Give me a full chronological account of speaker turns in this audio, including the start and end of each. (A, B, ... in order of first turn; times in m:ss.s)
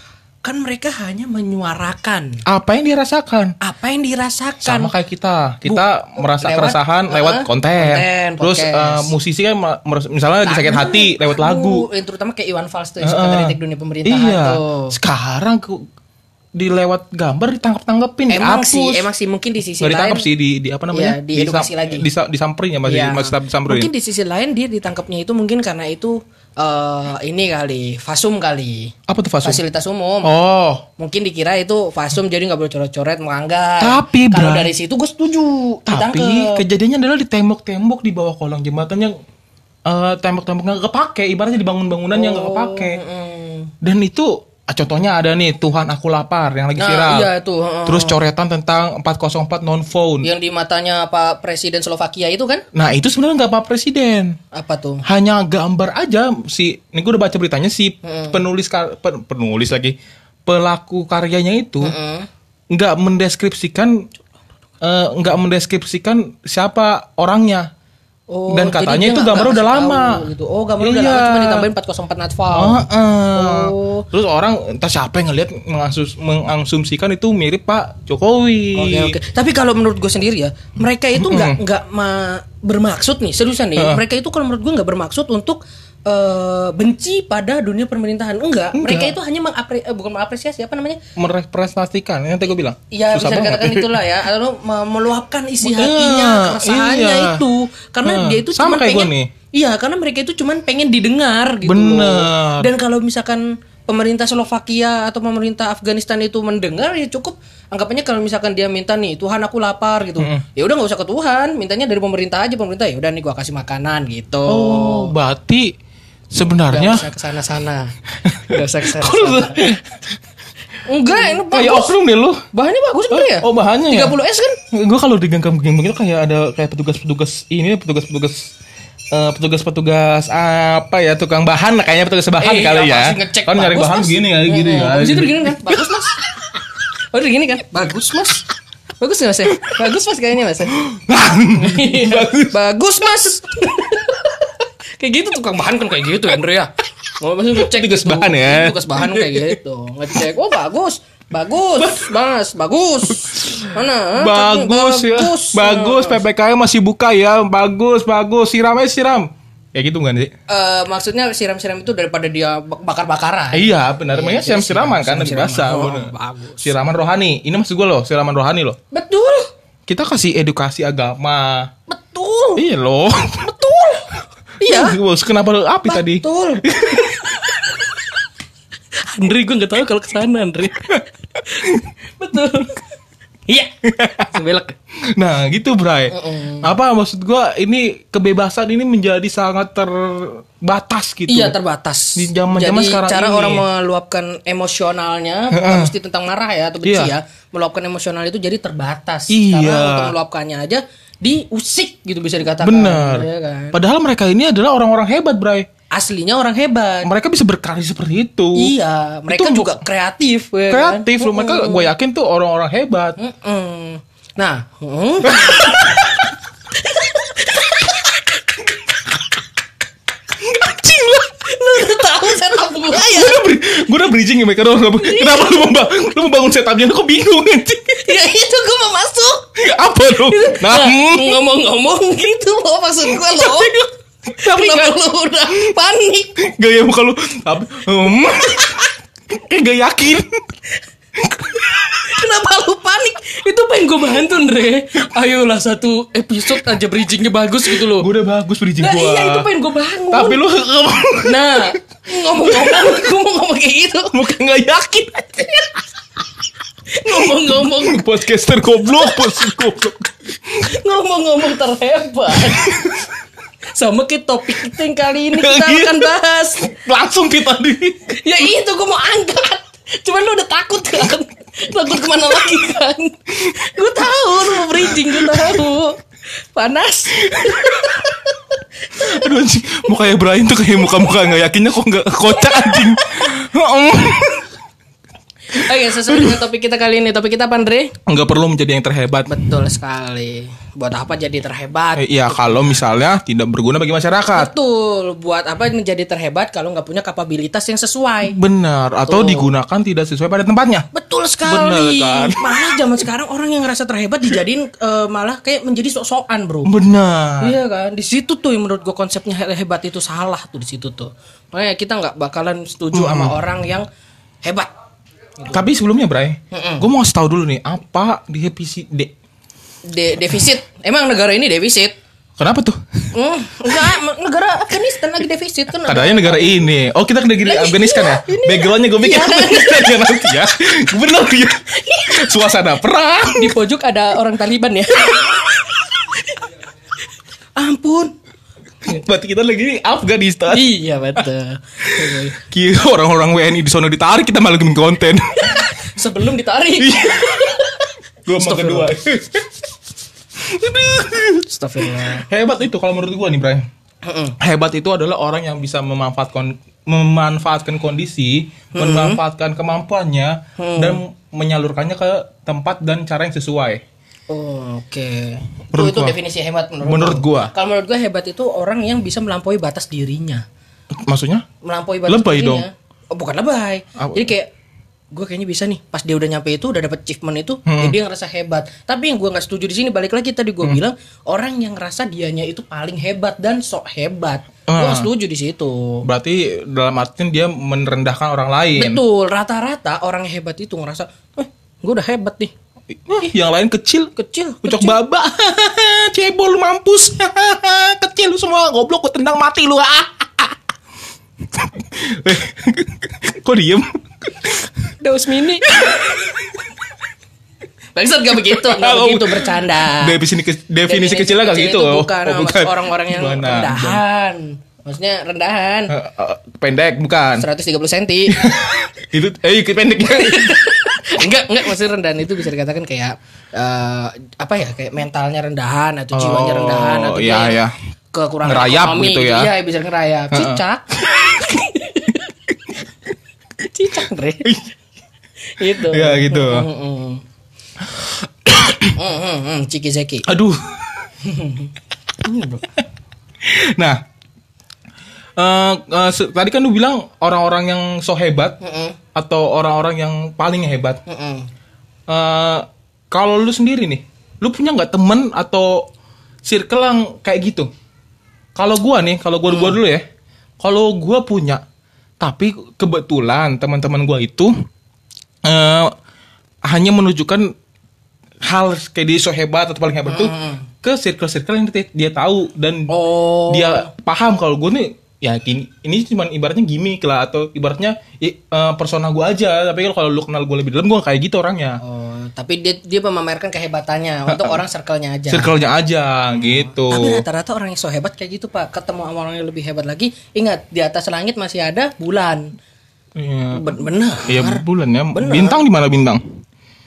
0:00.4-0:02.4 A
0:02.4-0:03.5 B
0:03.6-0:04.9 A
0:04.6-0:11.9 B
0:05.6-0:09.1 A
0:10.4-0:15.0 A
0:13.0-0:15.8 B
0:16.6-0:19.1 B
0:18.3-0:20.2 A
0:19.8-0:23.9 B
0:20.9-0:22.0 A
0:22.8-0:30.3 A
0:29.1-0:29.6 B
0:30.2-0:30.9 B
0:31.0-0:36.6 A
0:33.8-0:34.7 B
0:35.9-0:39.2 B
0:39.8-0:43.0 B
0:42.1-0:43.7 A
0:43.8-0:47.3 B
0:46.8-0:48.2 A
0:47.8-0:50.3 B
0:50.2-0:52.6 A
0:52.7-0:54.4 B
0:54.5-0:55.0 A
0:55.0-0:59.9 B
0:58.0-0:58.4 A
1:00.4-1:01.9 B
1:01.8-1:02.3 A
1:02.7-1:04.0 B
1:04.8-1:07.7 B
1:08.3-1:14.1 A
1:08.5-1:10.3 B
1:10.8-1:11.7 B
1:12.5-1:19.2 B
1:18.7-1:31.0 A
1:21.1-1:21.6 B
1:23.8-1:24.0 B
1:28.7-1:29.1 B
1:31.2-1:34.0 B
1:32.9-1:55.1 A
1:35.6-1:37.4 B
1:38.0-1:39.3 B
1:41.6-1:42.7 B
1:50.2-1:50.4 B
1:54.5-1:55.7 B
1:56.3-1:57.1 B
1:56.7-1:57.9 A
1:58.2-2:00.0 B
1:58.5-1:59.7 A
2:00.8-2:01.9 A
2:01.1-2:02.4 B
2:02.5-2:04.6 A
2:03.1-2:04.1 B
2:04.7-2:08.5 B
2:09.1-2:16.1 B
2:12.4-2:16.5 A
2:17.1-2:18.4 A
2:19.0-2:20.8 A
2:20.7-2:22.6 B
2:21.5-2:36.2 A
2:27.5-2:29.6 B
2:31.8-2:32.1 B
2:33.1-2:40.3 B
2:40.5-2:46.7 A
2:43.5-2:48.8 B
2:48.9-2:49.5 A
2:49.9-2:51.7 B
2:51.9-2:52.6 A
2:52.6-2:53.5 B
2:53.4-2:55.0 A
2:54.6-2:57.3 B
2:55.9-2:57.9 A
2:59.0-3:02.8 A
3:01.6-3:01.8 B
3:03.8-3:04.3 B
3:04.3-3:04.8 A
3:05.1-3:11.5 B
3:06.1-3:06.7 A
3:11.3-3:23.8 A
3:12.2-3:13.6 B
3:15.5-3:15.9 B
3:16.8-3:17.1 B
3:19.3-3:20.1 B
3:22.6-3:25.7 B
3:25.9-3:27.1 A
3:27.0-3:28.7 B
3:28.5-3:31.9 A
3:29.3-3:29.8 B
3:30.7-3:33.2 B
3:33.2-3:36.1 A
3:35.3-3:36.1 B
3:36.7-3:39.2 A
3:40.4-3:42.0 B
3:41.4-3:43.4 A
3:42.7-3:48.0 B
3:45.0-3:45.7 A
3:47.9-3:49.5 A
3:49.6-3:51.4 B
3:50.2-3:53.8 A
3:53.0-3:55.0 B
3:54.4-3:56.4 A
3:56.4-4:00.4 B
4:01.2-4:02.1 B
4:02.0-4:08.1 A
4:07.7-4:09.5 B
4:08.8-4:10.4 A
4:10.1-4:13.0 B
4:11.2-4:14.2 A
4:14.1-4:15.8 B
4:16.9-4:18.0 A
4:17.1-4:20.8 B
4:19.0-4:19.4 A
4:20.6-4:22.9 A
4:22.3-4:23.0 B
4:23.7-4:26.7 A
4:25.3-4:28.2 B
4:28.1-4:36.0 A
4:34.3-4:35.6 B
4:36.5-4:39.3 A
4:37.2-4:38.0 B
4:39.0-4:44.5 B
4:42.4-4:42.9 A
4:45.5-4:47.9 A
4:45.6-4:46.4 B
4:48.0-4:49.4 B
4:49.3-4:52.8 A
4:52.0-4:54.5 B
4:54.3-4:58.4 A
4:58.2-5:00.9 B
4:59.1-4:59.5 A
5:00.9-5:06.7 A
5:01.4-5:03.0 B
5:06.6-5:07.6 B
5:07.4-5:13.8 A
5:12.9-5:13.4 B
5:14.4-5:14.7 A
5:15.5-5:19.1 B
5:16.5-5:16.9 A
5:19.8-5:21.9 A
5:22.4-5:23.1 B
5:23.1-5:26.6 A
5:25.8-5:33.6 B
5:27.4-5:30.2 A
5:31.7-5:32.3 A
5:33.3-5:36.4 A
5:37.6-5:38.1 A
5:38.8-5:40.7 B
5:40.5-5:42.4 A
5:41.8-5:45.7 B
5:45.4-5:48.9 A
5:46.8-5:47.6 B
5:48.2-5:49.6 B
5:50.4-5:53.6 B
5:51.5-5:52.3 A
5:54.0-5:54.4 A
5:54.4-6:03.8 B
5:58.7-5:59.2 A
6:00.6-6:01.0 A
6:04.3-6:10.4 A
6:05.7-6:06.2 B
6:06.8-6:07.5 B
6:10.9-6:11.4 B
6:11.6-6:14.5 A
6:12.1-6:12.6 B
6:14.0-6:14.3 B
6:15.1-6:26.0 A
6:17.6-6:18.0 B
6:24.7-6:25.1 B
6:26.0-6:29.0 B
6:28.8-6:32.5 A
6:32.9-6:40.6 B
6:34.2-6:35.0 A
6:41.5-6:44.7 B
6:45.0-6:45.9 A
6:45.6-6:46.6 B
6:48.0-6:50.2 A
6:48.3-6:54.0 B
6:50.8-6:55.9 A
6:55.9-6:57.4 B
6:57.4-6:58.6 A
6:58.3-7:00.6 B
7:00.0-7:07.6 A
7:06.1-7:07.7 B
7:08.1-7:12.3 A
7:08.4-7:09.5 B
7:10.3-7:10.6 B
7:13.6-7:14.5 A
7:15.6-7:17.2 A
7:15.7-7:16.7 B
7:18.0-7:18.9 B
7:18.9-7:20.3 A
7:20.2-7:20.8 B
7:21.2-7:22.7 A
7:23.4-7:24.0 B
7:25.4-7:28.6 B
7:28.6-7:29.0 A
7:29.1-7:31.0 B
7:31.0-7:31.5 A
7:32.1-7:35.9 B
7:36.4-7:37.7 B
7:38.6-7:40.0 B
7:39.5-7:39.8 A
7:40.6-7:41.6 B
7:42.2-7:44.5 B
7:45.4-7:45.9 B
7:46.6-7:47.5 B
7:48.4-7:52.9 B
7:50.0-7:50.7 A
7:52.9-7:53.9 A
7:53.5-8:01.8 B
8:01.8-8:05.5 A
8:04.3-8:04.6 B
8:05.3-8:07.2 B
8:06.4-8:12.5 A
8:13.2-8:16.2 B
8:13.5-8:15.6 A